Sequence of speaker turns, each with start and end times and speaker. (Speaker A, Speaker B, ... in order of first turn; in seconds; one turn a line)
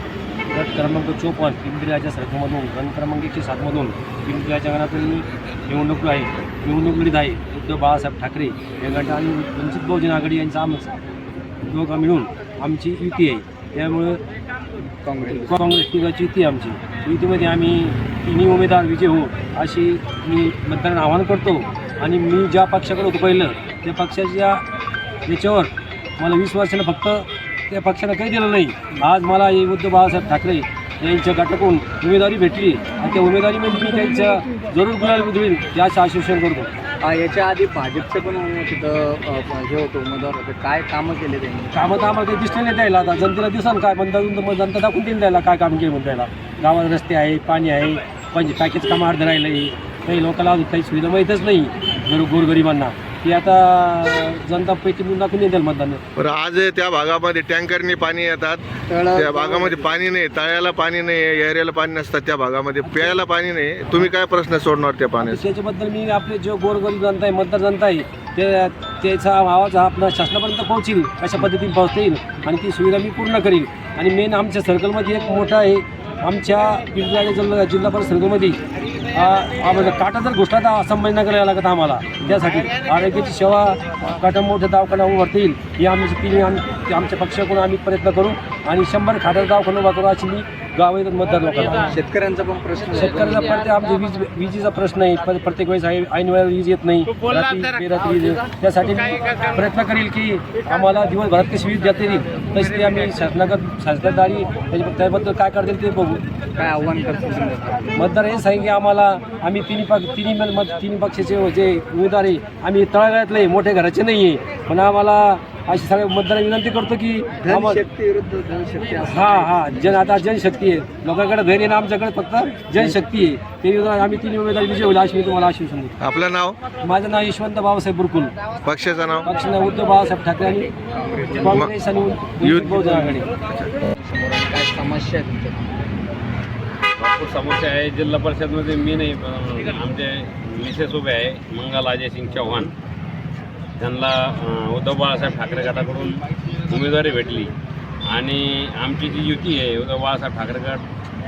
Speaker A: 0.5-11.0
Speaker A: 11.6-14.2
Speaker B: 14.8-15.6
Speaker A: 15.3-24.6
Speaker A: 25.2-36.7
Speaker B: 37.0-41.8
Speaker A: 41.7-56.0
Speaker C: 56.1-58.6
Speaker B: 58.9-59.9
Speaker C: 59.1-65.5
Speaker A: 62.8-63.2
Speaker A: 65.2-78.6
Speaker A: 79.1-92.0
Speaker B: 91.9-93.5
Speaker A: 92.9-106.2
Speaker B: 106.5-108.1
Speaker A: 108.0-117.8
Speaker B: 117.4-120.1
Speaker A: 119.0-125.9
Speaker C: 126.0-126.6
Speaker A: 126.8-128.3
Speaker C: 128.6-129.3
Speaker A: 129.2-130.7
Speaker B: 130.9-131.6
Speaker A: 131.3-133.3
Speaker C: 132.4-133.7
Speaker B: 133.9-135.9
Speaker D: 137.0-142.7
Speaker D: 143.8-147.5
Speaker D: 148.1-150.8